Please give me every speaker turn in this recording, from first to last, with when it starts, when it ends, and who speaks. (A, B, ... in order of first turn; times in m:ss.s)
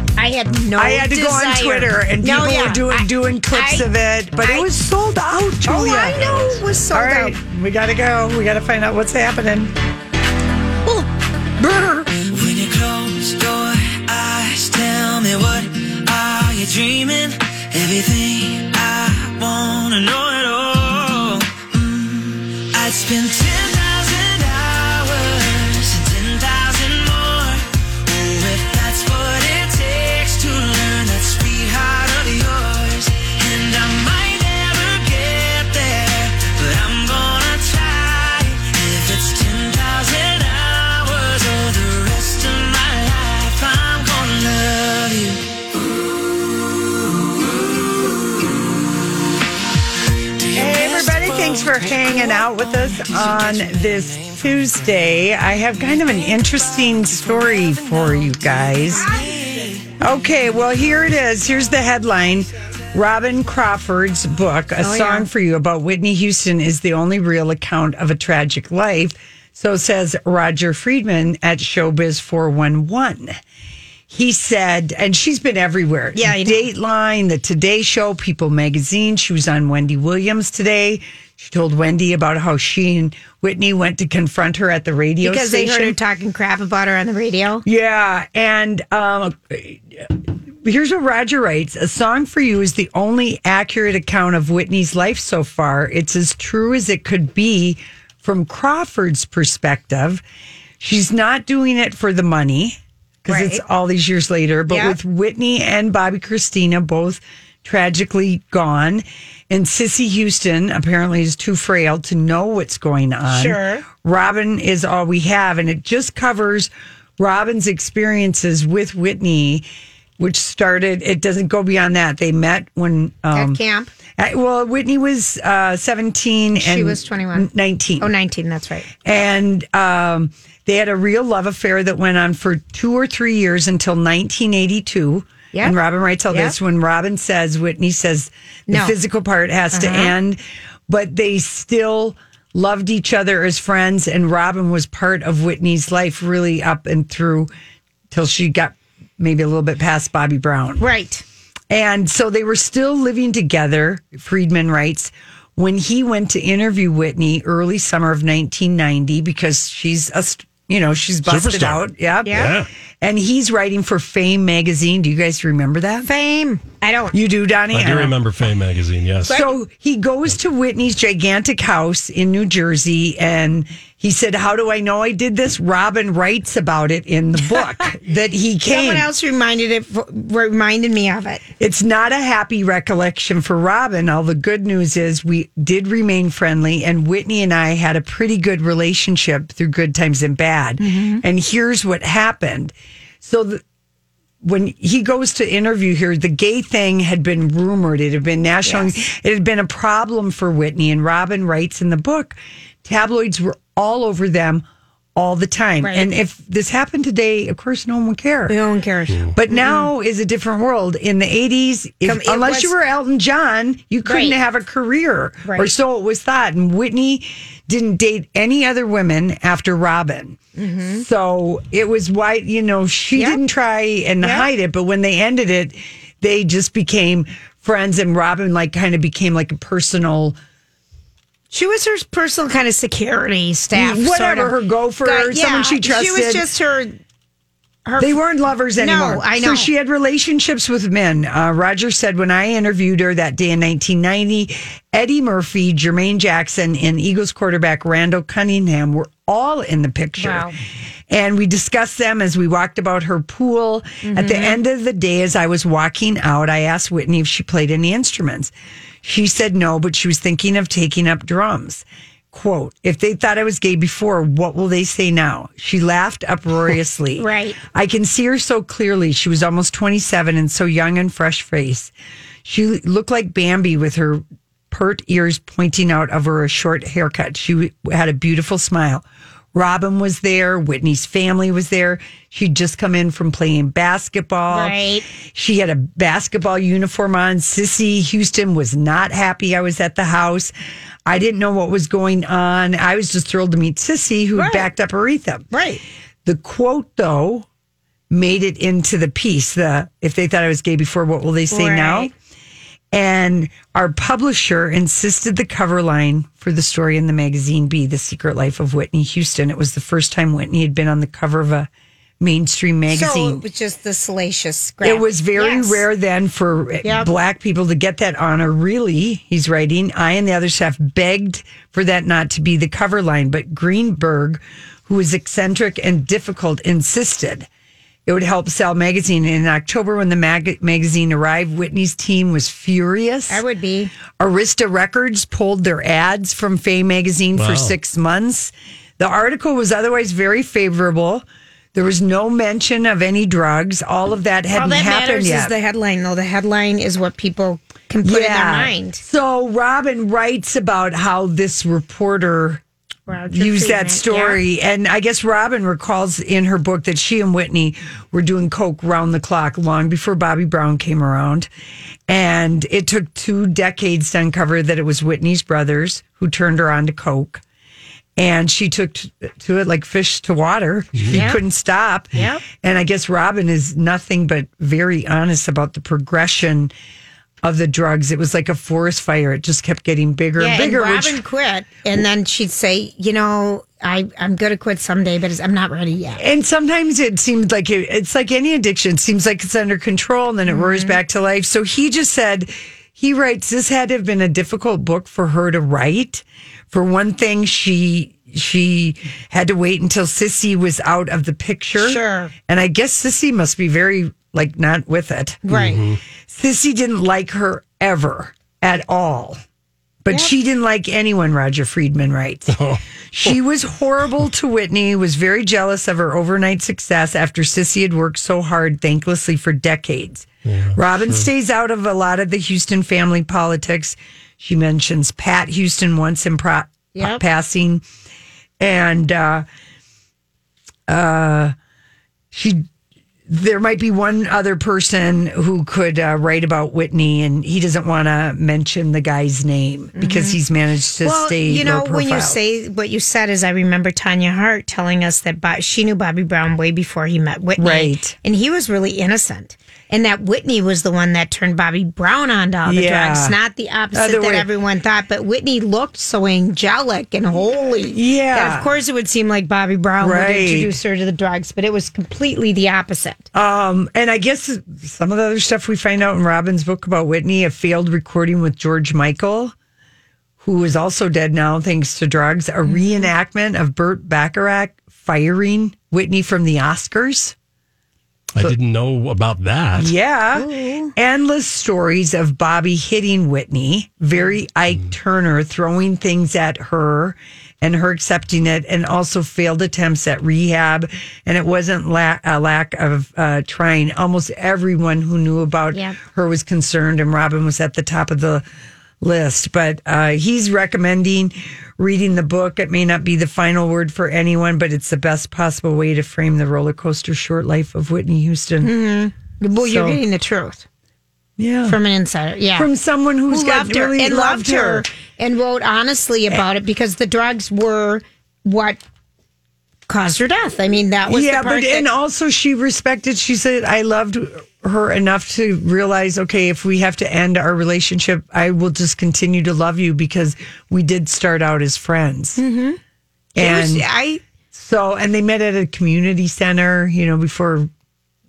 0:00.2-0:03.9 A
0:00.8-0:09.7 B
0:04.4-0:04.7 A
0:05.6-0:07.4 A
0:11.6-0:12.1 B
0:12.2-0:45.5 C
0:50.5-0:59.2 B
1:00.0-1:13.4 B
1:04.8-1:05.3 A
1:14.1-1:26.0 B
1:16.2-1:16.6 A
1:25.2-1:27.6 A
1:27.6-1:40.2 B
1:40.8-1:59.6 B
1:43.3-1:43.6 A
1:44.7-1:45.0 A
1:53.3-1:53.8 A
2:00.2-2:03.6 B
2:03.3-2:03.9 A
2:04.2-2:08.1 B
2:06.6-2:07.5 A
2:08.0-2:08.9 A
2:09.0-2:27.5 B
2:16.3-2:16.5 A
2:18.7-2:18.9 A
2:19.7-2:20.1 A
2:28.1-2:30.8 B
2:30.8-2:31.2 A
2:31.7-2:46.1 B
2:41.3-2:42.7 D
2:42.2-2:42.5 A
2:46.0-2:47.2 A
2:47.1-2:48.2 B
2:47.7-2:49.4 D
2:49.2-2:49.5 A
2:49.2-2:59.1 B
2:58.7-3:01.4 A
3:01.6-3:13.6 B
3:10.8-3:11.2 A
3:14.4-3:24.6 B
3:18.6-3:18.9 A
3:25.2-3:28.6 B
3:25.8-3:26.1 A
3:28.5-3:29.9 A
3:29.3-3:40.4 B
3:32.0-3:32.7 A
3:34.0-3:34.4 A
3:35.4-3:35.7 A
3:40.5-3:41.0 A
3:41.0-3:50.4 B
3:44.2-3:44.5 A
3:51.5-3:57.0 A
3:53.7-3:56.5 B
3:57.8-3:58.2 A
3:58.0-4:10.5 B
3:58.8-3:59.7 A
4:10.2-4:10.5 A
4:11.1-4:18.5 B
4:14.0-4:14.6 A
4:19.0-4:31.9 B
4:27.2-4:27.6 A
4:32.4-4:44.8 B
4:44.5-4:45.0 A
4:45.3-4:50.5 B
4:51.0-4:55.5 B
4:54.3-4:54.7 A
4:55.5-4:55.8 A
4:56.2-4:57.5 B
4:58.1-5:02.1 B
5:01.5-5:02.1 A
5:02.9-5:11.7 B
5:12.2-5:13.4 B
5:12.9-5:15.8 A
5:14.8-5:27.5 B
5:16.8-5:17.1 A
5:28.0-5:33.4 B
5:33.3-5:33.9 A
5:34.2-5:45.5 B
5:37.4-5:37.7 D
5:44.5-5:49.0 A
5:48.0-5:52.6 B
5:53.1-5:54.4 A
5:53.3-6:01.5 B
6:02.1-6:07.4 B
6:08.2-6:16.7 B
6:11.1-6:11.4 A
6:12.1-6:12.4 A
6:17.4-6:21.2 B
6:20.4-6:26.2 A
6:26.2-6:45.4 B
6:30.4-6:31.0 A
6:41.8-6:42.3 A
6:45.4-6:45.8 A
6:45.5-6:46.0 D
6:46.3-6:49.4 B
6:50.0-6:52.6 B
6:52.5-6:53.3 D
6:53.1-7:07.8 B
7:00.4-7:01.2 D
7:06.9-7:07.2 A
7:08.6-7:09.4 B
7:10.9-7:11.5 B
7:12.3-7:12.6 B
7:13.3-7:22.4 B
7:20.0-7:20.4 A
7:21.0-7:43.2 A
7:27.6-7:28.1 B
7:32.6-7:33.3 B
7:33.9-7:34.5 B
7:37.9-7:38.7 B
7:40.0-7:40.7 B
7:43.3-7:49.5 B
7:50.4-7:57.3 B
7:52.6-7:53.1 A
7:58.3-7:59.9 D
7:59.8-8:18.4 B
8:00.3-8:00.9 A
8:15.7-8:16.0 A
8:19.0-8:28.7 B
8:28.6-8:30.6 A
8:29.6-8:30.0 B
8:31.4-8:31.8 B
8:31.7-8:32.7 A
8:32.5-8:34.8 B
8:33.3-8:38.8 A
8:39.9-8:41.8 A
8:41.1-8:52.4 B
8:52.4-8:52.8 A
8:53.4-8:53.8 B
8:53.4-8:54.2 A
8:54.5-8:57.7 B